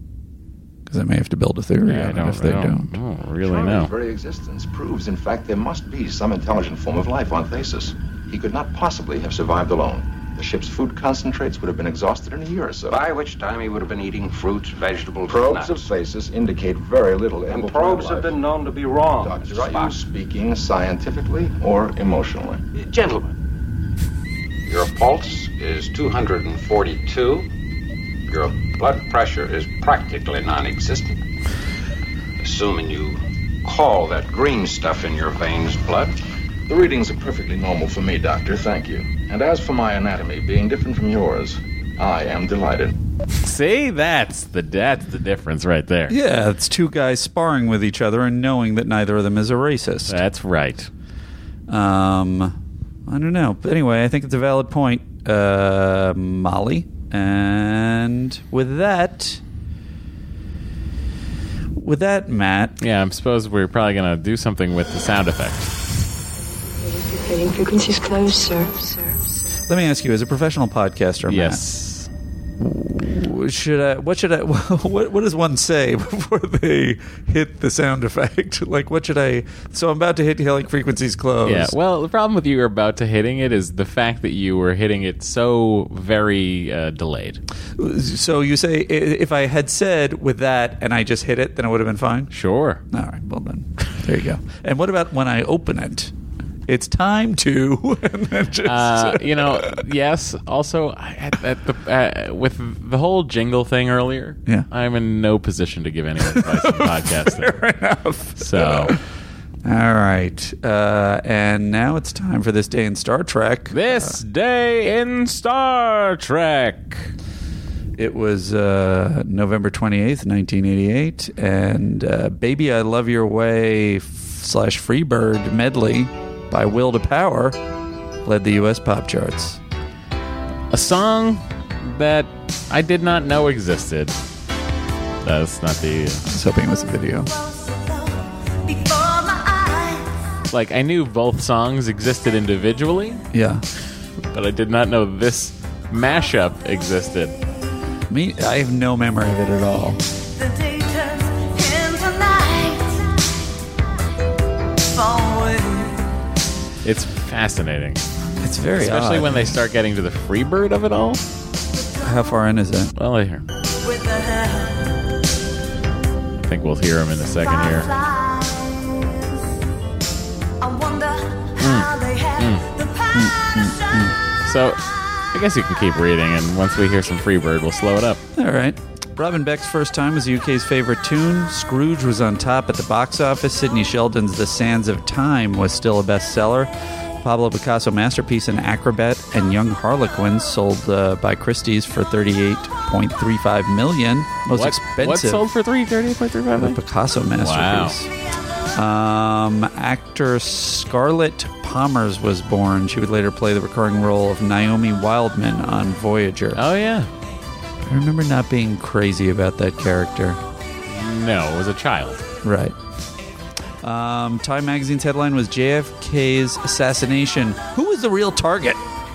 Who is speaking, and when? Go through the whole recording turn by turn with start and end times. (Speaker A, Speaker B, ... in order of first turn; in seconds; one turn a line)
Speaker A: 0.9-2.9
Speaker B: 1.9-3.9
Speaker C: 3.4-13.0
Speaker D: 12.9-15.8
Speaker C: 15.3-22.6
Speaker D: 17.5-18.4
Speaker D: 19.2-19.9
Speaker D: 24.6-27.5
Speaker D: 28.3-31.2
Speaker D: 32.4-36.1
Speaker C: 36.7-42.9
Speaker B: 43.4-46.1
Speaker A: 46.1-50.2
Speaker B: 50.1-50.9
Speaker A: 51.7-59.4
Speaker A: 61.8-62.8
Speaker B: 62.8-65.7
Speaker E: 66.6-69.5
Speaker A: 69.7-71.6
Speaker B: 71.3-72.1
Speaker A: 72.6-81.8
Speaker B: 81.5-87.4
Speaker A: 87.8-92.3
Speaker B: 92.3-92.8
Speaker A: 92.9-96.1
Speaker A: 96.7-99.7
Speaker B: 98.7-107.5
Speaker A: 106.2-109.0
Speaker B: 108.4-108.9
Speaker A: 109.6-114.2
Speaker B: 113.7-117.1
Speaker A: 118.0-127.6
Speaker A: 128.2-129.6
Speaker B: 130.7-134.2
Speaker B: 135.2-136.2
Speaker A: 136.3-137.3
Speaker F: 137.3-140.1
Speaker B: 140.5-143.2
Speaker A: 143.3-143.6
Speaker B: 144.3-147.4
Speaker A: 148.1-150.0
Speaker F: 150.3-153.1
Speaker F: 154.8-156.1
Speaker B: 156.8-158.0
Speaker A: 158.4-159.6
Speaker B: 158.8-161.2
Speaker A: 162.0-162.9
Speaker B: 163.0-163.4
Speaker F: 163.8-165.0
Speaker B: 166.5-167.9
Speaker F: 167.5-168.9
Speaker F: 170.6-174.1
Speaker B: 171.6-172.7
Speaker A: 173.1-174.1
Speaker B: 174.4-174.8
Speaker B: 175.3-178.2
Speaker A: 178.4-186.7
Speaker A: 187.2-195.4
Speaker B: 194.5-196.8
Speaker A: 196.6-198.1
Speaker B: 197.4-198.0
Speaker A: 198.7-206.6
Speaker B: 206.6-207.1
Speaker A: 207.8-210.4
Speaker B: 210.9-212.2
Speaker A: 212.4-212.8
Speaker A: 213.8-218.8